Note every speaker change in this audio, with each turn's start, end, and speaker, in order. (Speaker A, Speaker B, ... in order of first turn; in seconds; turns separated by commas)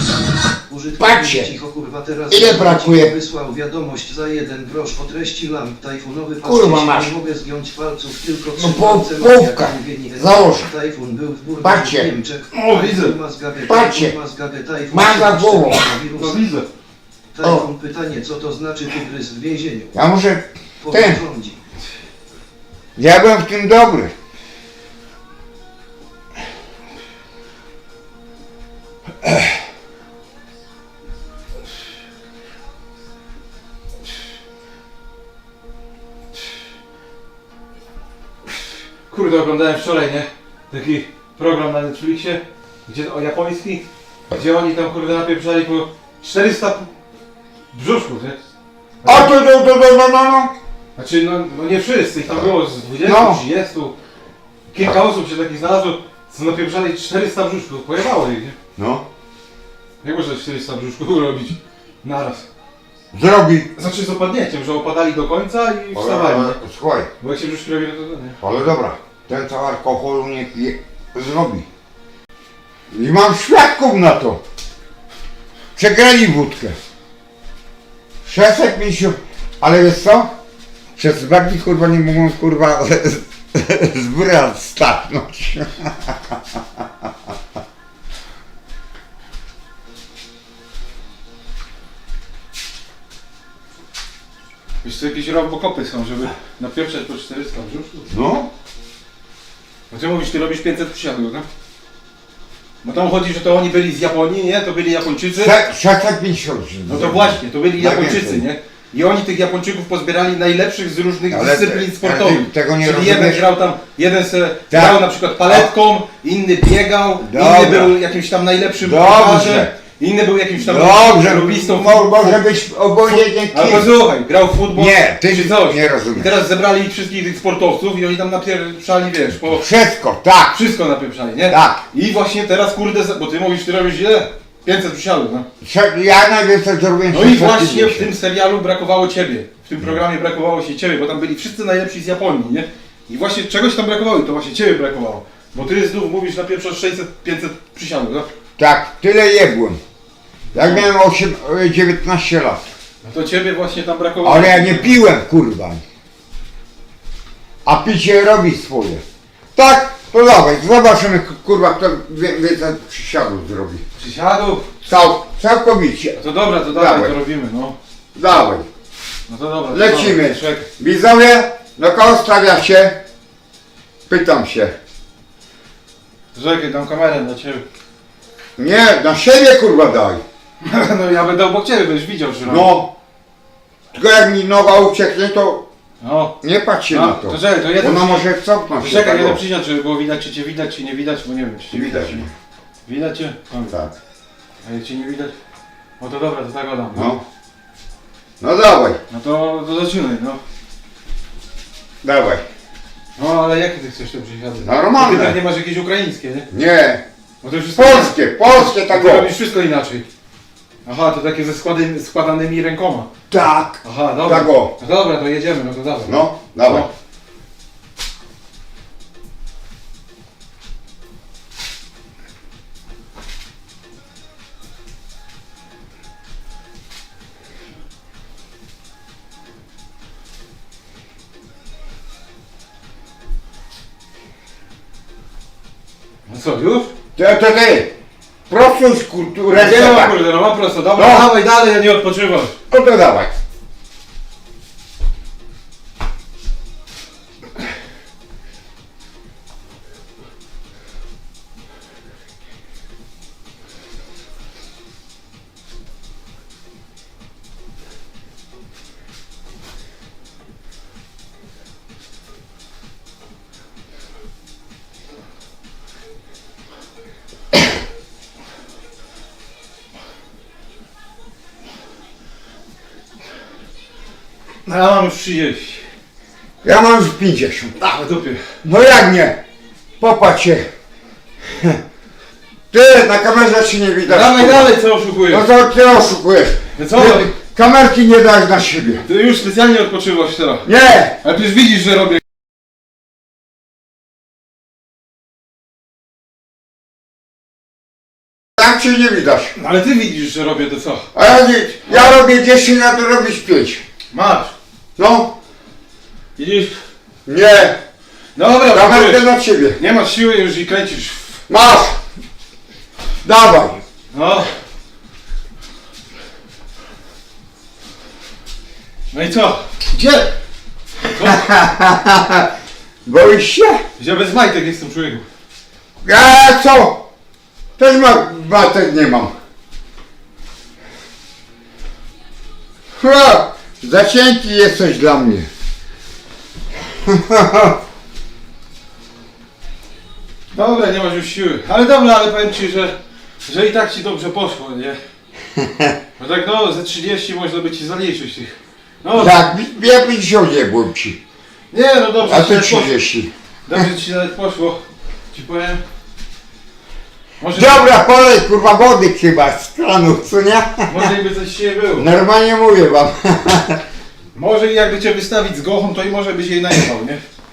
Speaker A: 0.7-16.4, Speaker B: 1.0-1.5, Speaker B: 2.3-3.1, Speaker B: 6.4-7.1, Speaker B: 8.5-10.7, Speaker B: 11.6-12.1, Speaker C: 12.5-13.1, Speaker B: 13.6-14.1, Speaker B: 14.9-15.9, Speaker C: 16.1-16.7, Speaker A: 17.3-19.9, Speaker B: 17.4-17.7, Speaker B: 19.9-21.2, Speaker A: 20.8-21.6, Speaker B: 22.9-24.1, Speaker C: 39.1-46.9, Speaker C: 47.7-48.4, Speaker C: 49.0-49.3, Speaker B: 49.0-50.5, Speaker C: 51.0-54.0, Speaker B: 53.0-53.4, Speaker C: 54.7-58.5, Speaker B: 58.8-59.0, Speaker C: 60.0-62.5, Speaker B: 63.1-63.7, Speaker C: 63.7-66.6, Speaker B: 65.9-67.1, Speaker C: 67.2-68.4, Speaker B: 68.4-71.7, Speaker B: 72.9-74.4, Speaker B: 75.8-76.8, Speaker B: 78.2-80.3, Speaker B: 81.0-86.8, Speaker C: 94.8-98.1, Speaker B: 98.1-98.5, Speaker C: 99.9-101.5, Speaker C: 102.8-105.5, Speaker B: 105.3-108.5, Speaker C: 106.9-122.4, Speaker B: 111.3-113.4, Speaker B: 114.7-115.7, Speaker B: 117.2-118.0, Speaker B: 118.8-119.7, Speaker B: 120.6-123.9, Speaker C: 123.1-129.6, Speaker B: 124.7-126.3, Speaker B: 129.5-130.6, Speaker C: 130.5-135.4, Speaker B: 131.5-131.8, Speaker B: 135.6-138.1, Speaker C: 137.1-148.3, Speaker B: 148.6-149.8, Speaker C: 150.5-150.9, Speaker B: 150.5-152.7, Speaker C: 153.0-155.0, Speaker B: 154.2-155.8, Speaker B: 157.6-159.0, Speaker B: 159.5-163.8, Speaker C: 163.9-164.7, Speaker B: 164.8-166.2, Speaker C: 166.2-167.8, Speaker B: 166.7-167.2, Speaker B: 168.1-168.7, Speaker C: 169.3-170.7, Speaker B: 169.7-173.0, Speaker B: 174.1-174.7, Speaker C: 176.3-177.6, Speaker B: 178.6-180.2, Speaker C: 180.6-182.7, Speaker B: 182.4-182.9, Speaker B: 183.9-185.7, Speaker C: 186.0-186.3, Speaker B: 186.4-189.4, Speaker C: 186.9-188.3, Speaker C: 188.8-192.3, Speaker B: 191.7-192.3, Speaker C: 192.8-193.8, Speaker C: 194.6-195.3, Speaker C: 196.0-197.2, Speaker B: 196.9-197.2, Speaker B: 198.4-199.0, Speaker C: 199.1-200.4, Speaker B: 202.0-202.4, Speaker C: 203.2-206.5, Speaker B: 204.6-205.4, Speaker B: 206.5-207.0, Speaker C: 207.4-210.1, Speaker B: 207.8-209.3, Speaker C: 210.8-213.1, Speaker B: 213.3-214.7, Speaker C: 213.8-216.9, Speaker B: 216.1-216.9, Speaker C: 236.3-236.9, Speaker B: 237.2-237.9, Speaker B: 238.5-240.2, Speaker C: 239.5-242.5, Speaker B: 240.9-241.3, Speaker B: 242.7-243.3, Speaker C: 274.6-275.8, Speaker B: 276.6-277.7, Speaker C: 277.8-278.4, Speaker B: 278.6-279.4, Speaker B: 280.0-280.6, Speaker B: 281.5-281.8, Speaker B: 282.7-284.8, Speaker C: 284.1-285.4, Speaker B: 285.3-289.0, Speaker C: 286.8-287.3, Speaker C: 289.0-290.7, Speaker B: 290.6-291.2, Speaker C: 291.2-292.2, Speaker B: 298.6-299.5, Speaker C: 299.5-301.1, Speaker B: 301.1-303.8, Speaker C: 301.9-302.1, Speaker C: 304.1-304.5, Speaker B: 305.0-305.3, Speaker C: 306.4-306.8, Speaker B: 307.2-307.8, Speaker C: 308.3-311.4, Speaker B: 308.7-309.8, Speaker B: 311.5-312.0, Speaker B: 313.2-313.8, Speaker C: 314.1-314.5, Speaker C: 319.1-320.3, Speaker C: 321.1-321.5, Speaker B: 321.2-322.5, Speaker B: 323.0-323.8, Speaker C: 324.0-325.2, Speaker B: 326.0-327.1, Speaker B: 327.8-329.3, Speaker B: 332.9-335.5, Speaker B: 337.0-337.8, Speaker C: 340.5-345.0, Speaker B: 345.6-345.9, Speaker C: 346.2-349.4, Speaker B: 349.1-351.2, Speaker C: 351.7-353.0, Speaker B: 352.2-353.3, Speaker C: 353.7-355.8, Speaker C: 357.4-357.9, Speaker B: 357.5-361.1, Speaker C: 360.9-362.1, Speaker B: 362.0-363.8, Speaker C: 364.3-367.2